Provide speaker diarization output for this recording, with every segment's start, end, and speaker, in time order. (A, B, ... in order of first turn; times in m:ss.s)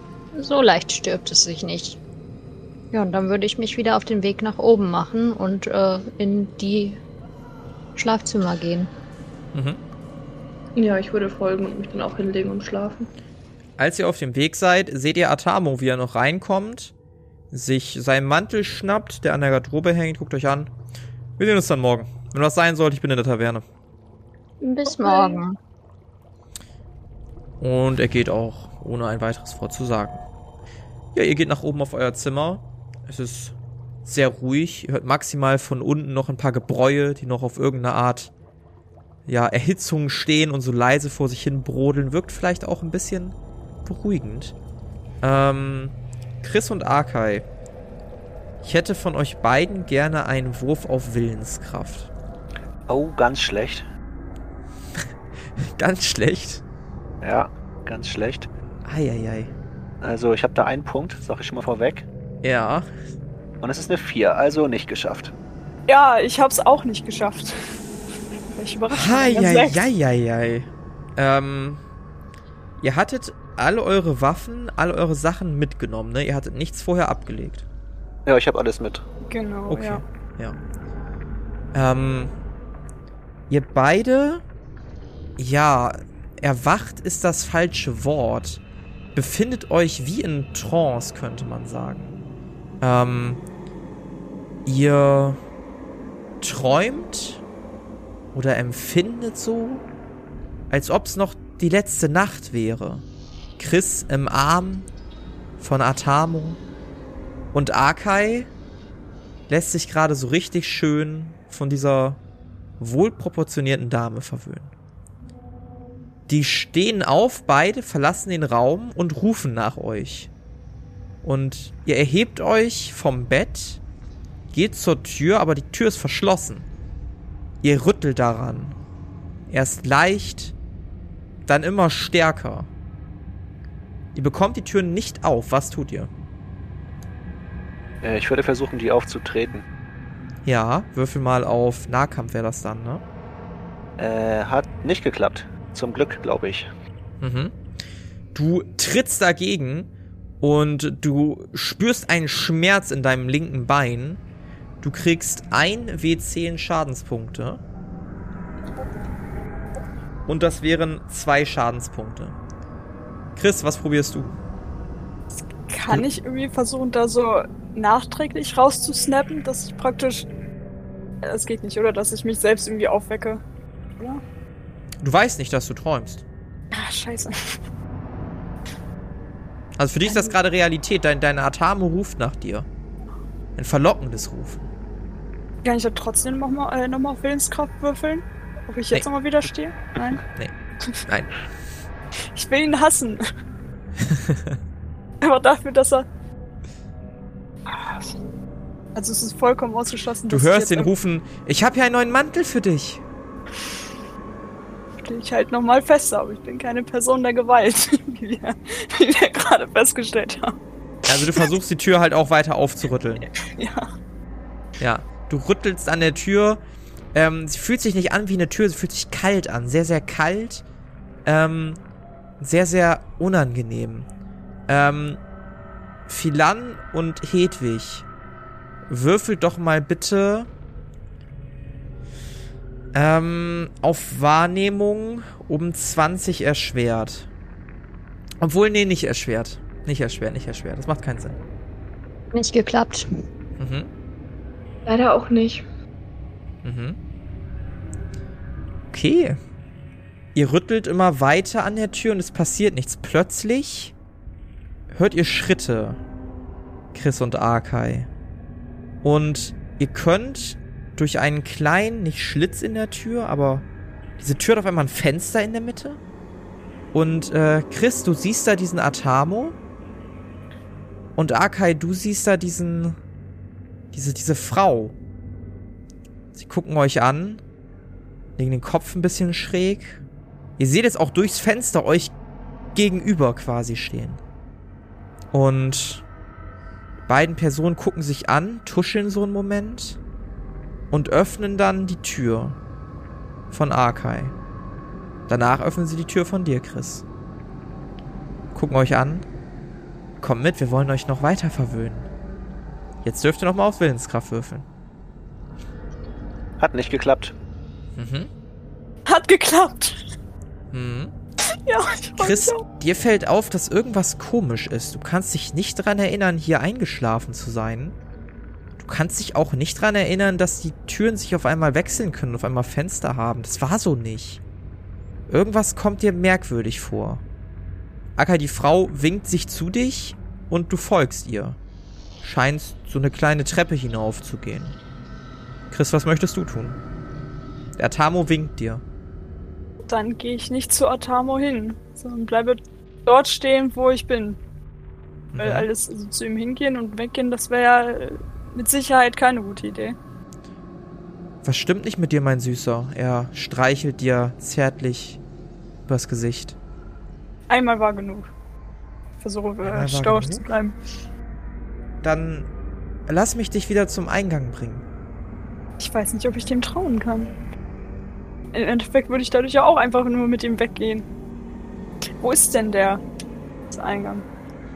0:00.3-0:02.0 A
0:02.9-0:07.0 A
0:08.0-0:08.9 A
0:09.5-0:09.8 B
0:10.8-0:13.1 C
0:13.8-0:16.9 B
0:17.5-0:20.7 B
0:21.4-0:23.6 B
0:24.6-0:25.6 A
0:24.9-0:25.4 C
0:27.6-0:30.2 B
0:31.1-0:33.5 B
0:34.0-0:38.3 B
0:39.3-0:44.5 B
0:45.2-0:47.4 B
0:48.6-0:52.1 B
0:52.9-0:53.8 D
0:55.6-0:56.6 B
0:57.2-0:58.5 D
0:58.8-0:59.5 B
1:00.0-1:02.1 D
1:02.4-1:02.9 B
1:03.6-1:05.3 D
1:05.9-1:07.7 E
1:08.5-1:09.8 E
1:08.9-1:11.8 B
1:12.8-1:17.6 B
1:18.2-1:19.1 D
1:19.3-1:20.0 E
1:19.7-1:20.6 B
1:21.7-1:22.3 B
1:23.5-1:24.4 B
1:25.4-1:28.6 B
1:29.1-1:32.1 B
1:32.8-1:33.4 B
1:34.6-1:35.4 B
1:36.4-1:37.4 B
1:38.3-1:39.8 B
1:40.7-1:43.0 B
1:43.6-1:44.9 B
1:45.6-1:46.6 B
1:47.5-1:48.5 B
1:49.5-1:52.2 B
1:52.8-1:54.7 B
1:56.3-2:00.3 B
2:01.2-2:03.8 B
2:04.5-2:06.7 B
2:07.6-2:08.8 B
2:09.5-2:10.5 B
2:11.4-2:12.7 B
2:14.1-2:16.1 B
2:18.0-2:19.6 D
2:20.4-2:23.0 B
2:24.0-2:26.7 D
2:27.2-2:27.5 B
2:28.3-2:29.9 B
2:30.4-2:34.2 B
2:34.8-2:37.6 B
2:40.3-2:42.4 B
2:43.4-2:44.3 B
2:45.7-2:50.3 E
2:51.2-2:53.4 E
2:55.0-2:56.2 B
2:56.7-2:57.6 E
2:59.8-3:02.7 B
3:00.1-3:00.3 E
3:03.6-3:04.7 B
3:05.6-3:10.2 E
3:12.3-3:13.2 E
3:14.0-3:14.6 B
3:15.2-3:16.1 E
3:17.7-3:18.1 E
3:18.9-3:20.9 E
3:20.3-3:23.0 B
3:25.0-3:31.5 E
3:31.1-3:33.2 B
3:33.2-3:33.9 E
3:34.8-3:36.6 B
3:37.1-3:40.6 B
3:41.2-3:41.8 B
3:42.4-3:44.1 B
3:44.7-3:45.2 B
3:46.1-3:48.0 B
3:48.9-3:50.5 B
3:52.9-3:57.3 B
3:58.4-4:01.4 B
4:02.3-4:03.1 A
4:03.6-4:03.9 B
4:04.8-4:05.6 C
4:06.6-4:07.0 B
4:08.9-4:09.4 B
4:10.3-4:13.9 B
4:14.9-4:16.0 B
4:16.9-4:18.1 B
4:19.0-4:23.7 B
4:24.2-4:26.0 B
4:26.9-4:29.6 B
4:31.2-4:33.0 B
4:33.9-4:35.0 B
4:36.3-4:37.4 B
4:38.4-4:40.0 B
4:40.6-4:42.1 B
4:42.7-4:44.2 B
4:45.3-4:46.0 B
4:47.1-4:50.0 B
4:50.9-4:52.6 B
4:53.5-4:54.3 B
4:55.3-4:57.0 B
4:58.5-4:59.2 B
5:00.2-5:02.1 B
5:03.0-5:04.6 B
5:06.6-5:07.3 D
5:08.0-5:08.3 B
5:09.1-5:10.0 E
5:10.7-5:11.1 B
5:11.6-5:12.6 E
5:12.2-5:18.0 B
5:18.8-5:24.4 B
5:25.3-5:27.2 B
5:28.2-5:31.6 B
5:32.2-5:34.8 B
5:35.7-5:36.8 B
5:37.8-5:38.8 B
5:39.8-5:44.4 E
5:45.3-5:45.7 B
5:45.4-5:50.0 E
5:51.4-5:55.2 B
5:55.9-5:56.6 B
5:57.5-5:58.3 E
5:59.2-6:00.8 E
5:59.6-6:00.4 B
6:02.0-6:02.5 B
6:03.1-6:04.8 B
6:05.8-6:07.3 E
6:08.5-6:11.0 E
6:12.2-6:13.0 E
6:13.7-6:14.2 E